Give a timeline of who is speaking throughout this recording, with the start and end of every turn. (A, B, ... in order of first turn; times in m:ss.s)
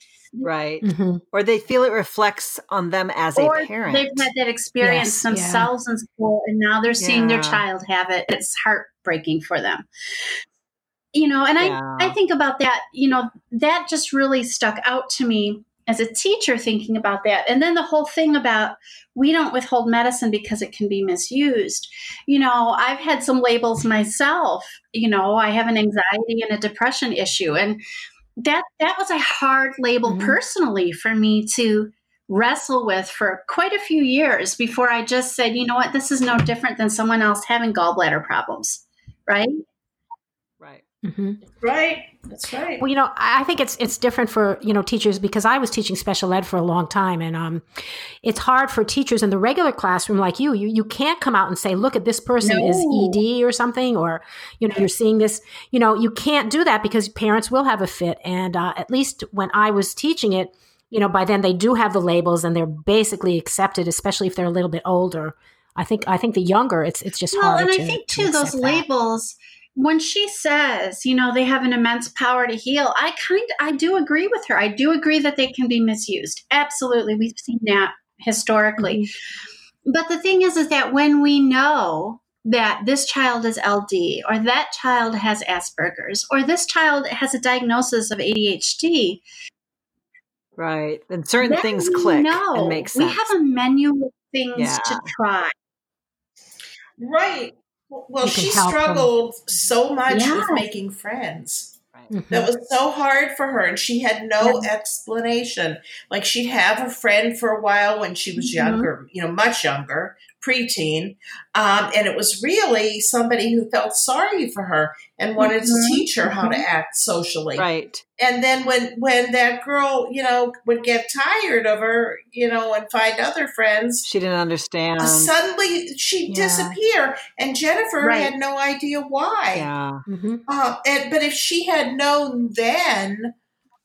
0:00.4-0:04.3 A
0:00.8-0:01.2 B
0:03.4-0:09.9 C
0:04.8-0:05.7 B
0:07.0-0:07.6 A
0:11.1-0:27.8 C
0:11.6-0:12.2 A
0:28.4-0:39.6 C
0:30.0-0:30.4 B
0:41.0-0:41.4 B
0:41.6-0:42.8 D
0:42.8-1:08.8 B
0:52.4-0:53.2 C
1:07.3-1:19.1 C
1:18.8-1:19.1 B
1:19.8-1:29.2 C
1:30.6-1:33.3 A
1:31.4-1:35.5 C
1:34.6-1:35.1 A
1:37.0-1:41.7 D
1:38.2-1:39.1 B
1:40.1-1:40.6 C
1:42.1-1:42.5 B
1:42.3-1:57.6 D
1:44.4-1:44.7 C
1:48.4-1:48.9 C
1:55.4-1:56.6 C
1:57.6-1:58.0 A
1:58.2-2:04.1 D
2:04.0-2:05.3 A
2:05.0-2:09.7 D
2:06.3-2:06.8 B
2:08.0-2:08.3 C
2:09.5-2:10.0 A
2:10.1-2:10.4 B
2:10.5-2:13.3 D